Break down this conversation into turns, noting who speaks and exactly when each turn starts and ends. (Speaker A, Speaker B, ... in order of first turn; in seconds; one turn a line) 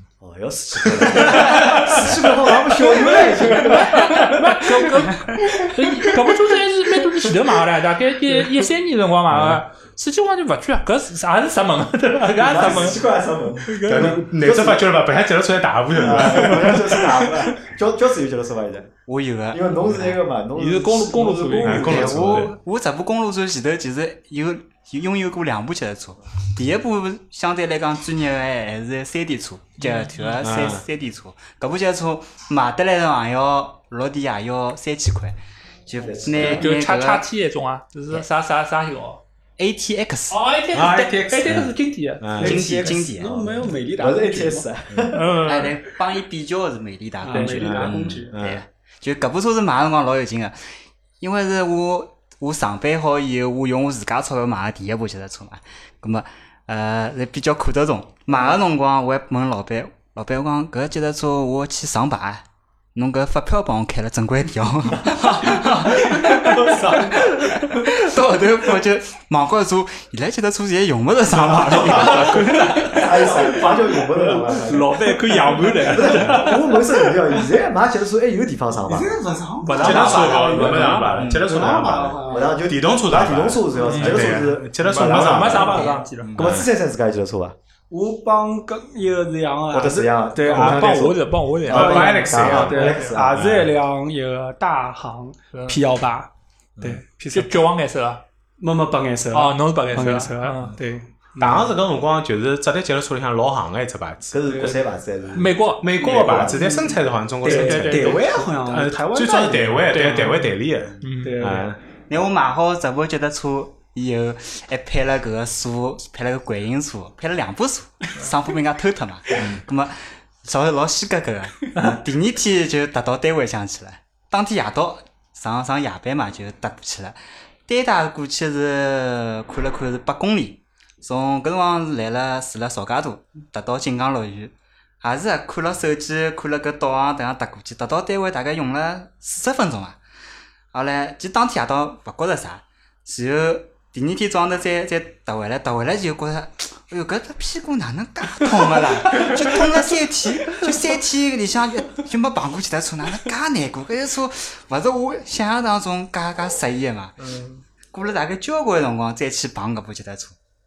Speaker A: 0.2-4.6
Speaker B: 1.0-2.1
Speaker C: 1.4-1.7
Speaker C: 3.5-13.0
Speaker B: 9.3-9.6
Speaker A: 12.4-14.9
Speaker B: 12.5-12.9
Speaker C: 13.6-14.2
Speaker B: 13.8-17.0
Speaker A: 15.9-18.9
Speaker C: 16.1-17.1
Speaker D: 19.1-20.2
Speaker A: 19.5-22.5
Speaker C: 20.6-22.2
Speaker B: 21.6-22.5
Speaker D: 21.8-37.3
Speaker C: 29.8-30.5
Speaker B: 30.4-30.8
Speaker A: 36.0-36.7
Speaker C: 36.5-39.2
Speaker D: 39.6-40.4
Speaker C: 40.3-43.0
Speaker B: 40.7-42.9
Speaker E: 42.4-44.7
Speaker D: 42.4-43.5
Speaker A: 44.0-45.3
Speaker B: 44.9-45.2
Speaker C: 45.1-45.8
Speaker D: 45.4-50.5
Speaker E: 47.2-48.3
Speaker C: 47.3-47.7
Speaker B: 47.6-48.6
Speaker D: 51.2-73.0
Speaker E: 65.3-67.4
Speaker C: 66.0-66.5
Speaker B: 71.5-71.9
Speaker C: 71.9-73.6
Speaker E: 71.9-73.6
Speaker A: 72.9-79.2
Speaker C: 74.1-77.1
Speaker E: 78.9-82.6
Speaker C: 79.6-82.2
Speaker B: 79.7-86.7
Speaker D: 81.1-81.7
Speaker A: 82.2-87.5
Speaker C: 83.8-86.3
Speaker E: 85.6-86.1
Speaker D: 86.2-86.6
Speaker E: 87.9-91.1
Speaker A: 89.7-93.4
Speaker C: 90.4-93.2
Speaker B: 91.7-93.7
Speaker E: 91.7-97.7
Speaker C: 95.5-95.8
Speaker C: 97.3-98.2
Speaker E: 98.6-101.8
Speaker C: 99.3-100.7
Speaker B: 101.4-104.4
Speaker A: 104.3-106.7
Speaker E: 104.5-104.8
Speaker C: 105.3-105.9
Speaker B: 105.8-111.8
Speaker E: 106.0-110.2
Speaker C: 107.5-108.3
Speaker C: 109.9-111.4
Speaker E: 111.2-111.7
Speaker D: 112.1-140.0
Speaker B: 119.3-119.6
Speaker D: 140.7-157.2
Speaker E: 149.2-149.6
Speaker C: 157.2-157.6
Speaker D: 157.9-160.4